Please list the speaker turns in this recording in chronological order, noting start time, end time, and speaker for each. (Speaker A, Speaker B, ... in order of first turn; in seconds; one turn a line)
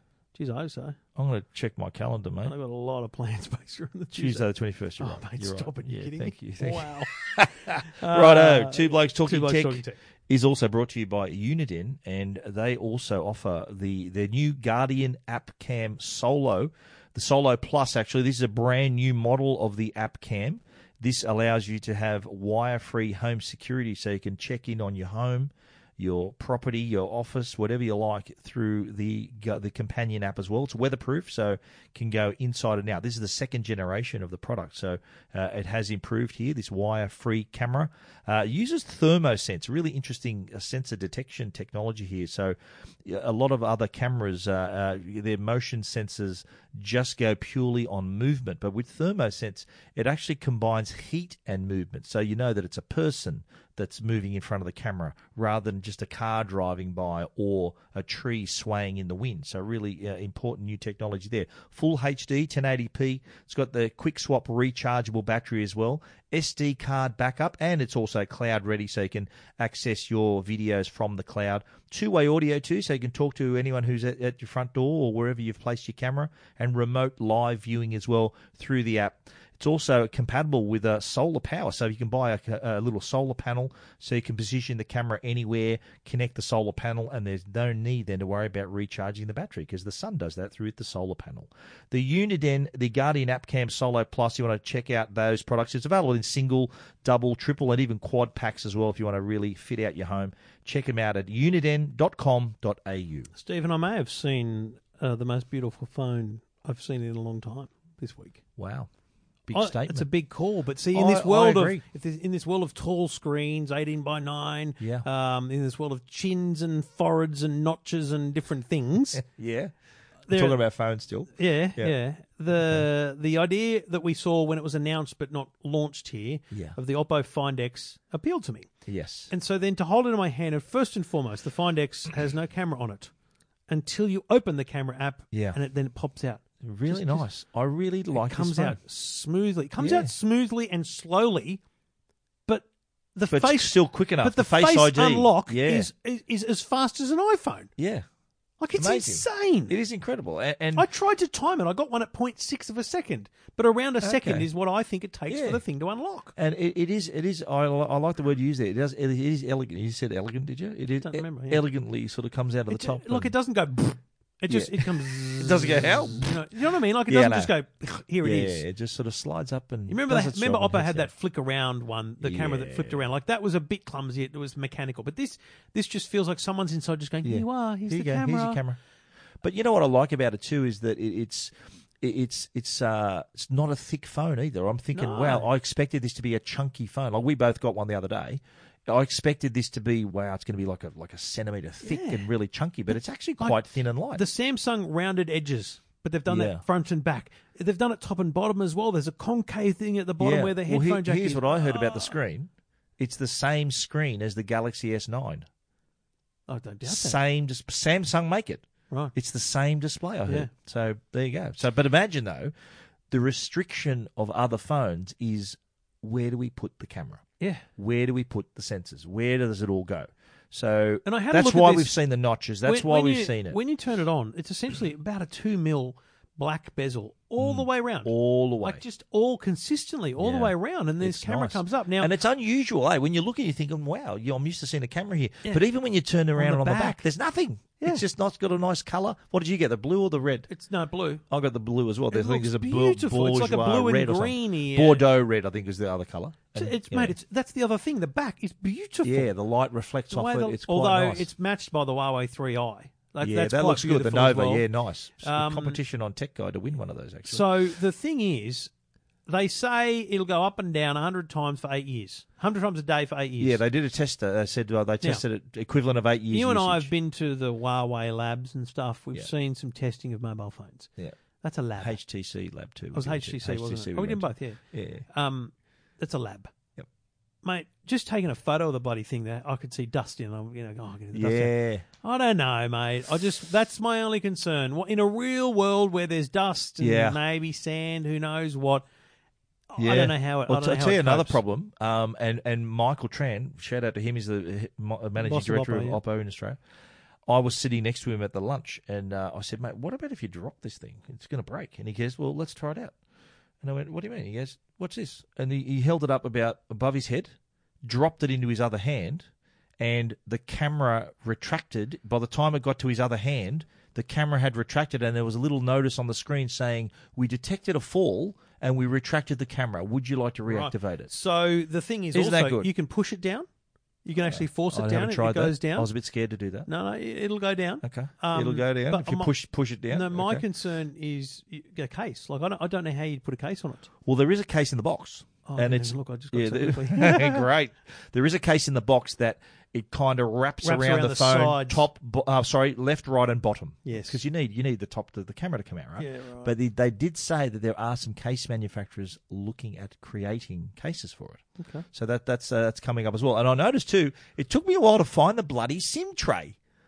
Speaker A: 0.3-1.0
Speaker B: 1.1-2.5
Speaker A: 2.4-4.5
Speaker B: 4.1-103.3
Speaker A: 5.0-7.1
Speaker A: 7.7-10.0
Speaker A: 103.3-108.4
Speaker B: 108.6-108.9
Speaker B: 109.5-110.0
Speaker A: 109.5-119.2
Speaker B: 110.9-111.8
Speaker B: 114.8-115.0
Speaker B: 119.1-119.7
Speaker A: 120.3-120.6
Speaker B: 120.3-121.9
Speaker A: 121.3-128.7
Speaker B: 122.5-122.8
Speaker B: 126.5-126.8
Speaker B: 128.8-129.3
Speaker A: 129.3-133.1
Speaker A: 133.7-137.3
Speaker B: 135.3-135.6
Speaker B: 136.6-138.8
Speaker A: 138.1-141.6
Speaker B: 139.8-140.1
Speaker A: 142.5-147.7
Speaker B: 143.3-145.9
Speaker B: 147.8-148.1
Speaker A: 148.6-149.7
Speaker B: 148.7-150.8
Speaker A: 150.7-156.3
Speaker B: 154.0-154.5
Speaker B: 155.3-155.6
Speaker B: 156.3-163.3
Speaker A: 161.0-161.6
Speaker A: 162.7-168.6
Speaker B: 164.5-166.3
Speaker B: 167.1-167.5
Speaker B: 168.2-171.1
Speaker A: 169.9-178.6
Speaker B: 172.2-173.0
Speaker B: 177.2-178.8
Speaker B: 179.4-194.2
Speaker A: 184.9-185.5
Speaker A: 191.8-192.3
Speaker A: 194.1-202.2
Speaker B: 196.3-196.6
Speaker B: 200.2-205.5
Speaker A: 206.5-207.2
Speaker B: 206.8-212.5
Speaker B: 213.1-217.2
Speaker A: 217.4-217.7
Speaker B: 217.8-223.6
Speaker A: 221.0-221.9
Speaker A: 222.6-232.1
Speaker B: 227.4-228.8
Speaker B: 230.2-240.5
Speaker A: 236.3-237.0
Speaker A: 240.5-241.2
Speaker B: 241.3-247.2
Speaker A: 242.1-245.1
Speaker A: 246.5-249.3
Speaker B: 249.0-251.3
Speaker A: 250.1-254.6
Speaker B: 253.2-257.5
Speaker A: 255.2-255.8
Speaker A: 257.3-258.7
Speaker A: 259.3-263.6
Speaker B: 263.4-266.9
Speaker A: 266.3-272.0
Speaker B: 271.8-275.0
Speaker A: 272.9-276.5
Speaker A: 277.4-288.9
Speaker B: 281.1-281.8
Speaker B: 286.8-287.2
Speaker A: 289.7-291.4
Speaker B: 289.8-296.6
Speaker A: 295.2-296.0
Speaker B: 297.3-302.9
Speaker B: 303.6-321.1
Speaker A: 320.4-323.5
Speaker B: 322.1-322.7
Speaker A: 324.0-325.9
Speaker B: 324.2-326.7
Speaker A: 326.7-329.3
Speaker B: 327.8-330.4
Speaker A: 329.9-333.9
Speaker B: 334.1-356.6
Speaker A: 335.4-337.5
Speaker A: 340.6-341.8
Speaker A: 343.8-344.2
Speaker A: 346.0-346.5
Speaker A: 351.6-351.9